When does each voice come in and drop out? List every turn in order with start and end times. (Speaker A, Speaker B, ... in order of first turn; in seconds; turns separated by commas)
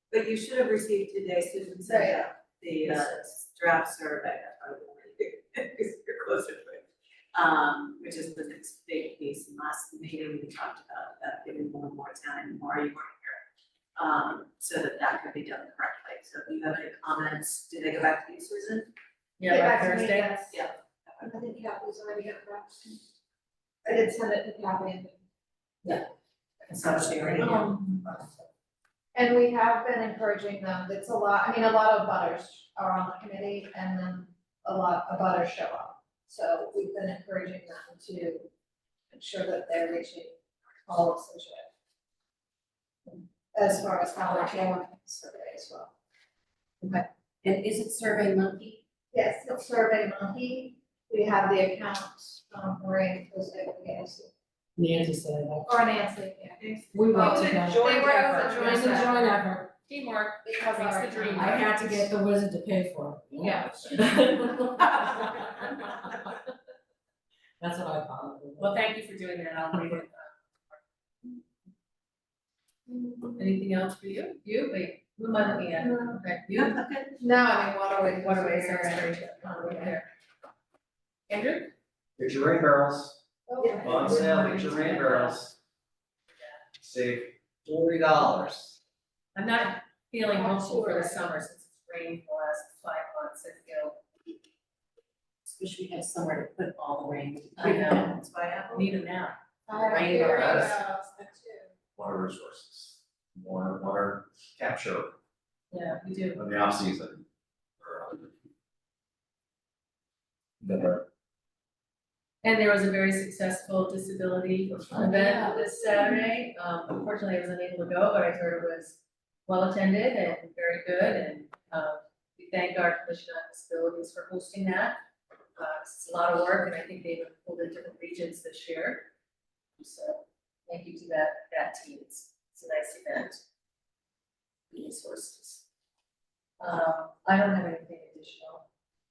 Speaker A: 0.1-13.4, Speaker B: 1.8-2.3, Speaker A: 13.9-18.9, Speaker C: 19.4-20.3, Speaker B: 19.5-20.6, Speaker A: 20.5-21.2, Speaker B: 21.2-23.0, Speaker B: 23.8-25.2, Speaker C: 26.6-27.7, Speaker D: 26.8-27.7, Speaker B: 27.4-28.1, Speaker B: 29.1-38.5, Speaker B: 39.1-41.7, Speaker B: 43.1-45.9, Speaker D: 46.8-48.8, Speaker B: 49.1-54.3, Speaker E: 54.8-55.8, Speaker B: 55.6-59.2, Speaker E: 56.9-59.7, Speaker C: 57.2-59.3, Speaker C: 59.9-61.8, Speaker B: 60.4-62.1, Speaker E: 61.3-66.3, Speaker B: 63.4-64.3, Speaker E: 67.6-68.7, Speaker C: 68.6-70.8, Speaker B: 72.9-73.4, Speaker C: 73.3-76.8, Speaker B: 75.8-76.1, Speaker A: 76.5-77.1, Speaker B: 77.2-80.0, Speaker C: 78.2-80.1, Speaker C: 81.3-81.7, Speaker F: 82.2-83.2, Speaker B: 83.5-84.5, Speaker C: 83.8-85.4, Speaker F: 83.8-85.5, Speaker F: 86.8-88.8, Speaker C: 89.3-94.0, Speaker B: 90.3-91.2, Speaker D: 95.4-98.4, Speaker C: 97.6-98.2, Speaker A: 98.2-98.8, Speaker C: 98.7-99.3, Speaker B: 99.7-101.7, Speaker C: 99.9-100.7, Speaker D: 99.9-100.6, Speaker F: 100.3-100.7, Speaker F: 102.0-105.2, Speaker C: 105.7-106.4, Speaker F: 106.3-107.2, Speaker F: 107.8-108.3, Speaker F: 110.6-111.0, Speaker C: 112.4-125.0, Speaker C: 125.5-129.1, Speaker C: 129.8-133.4, Speaker C: 134.7-135.6, Speaker C: 136.6-138.7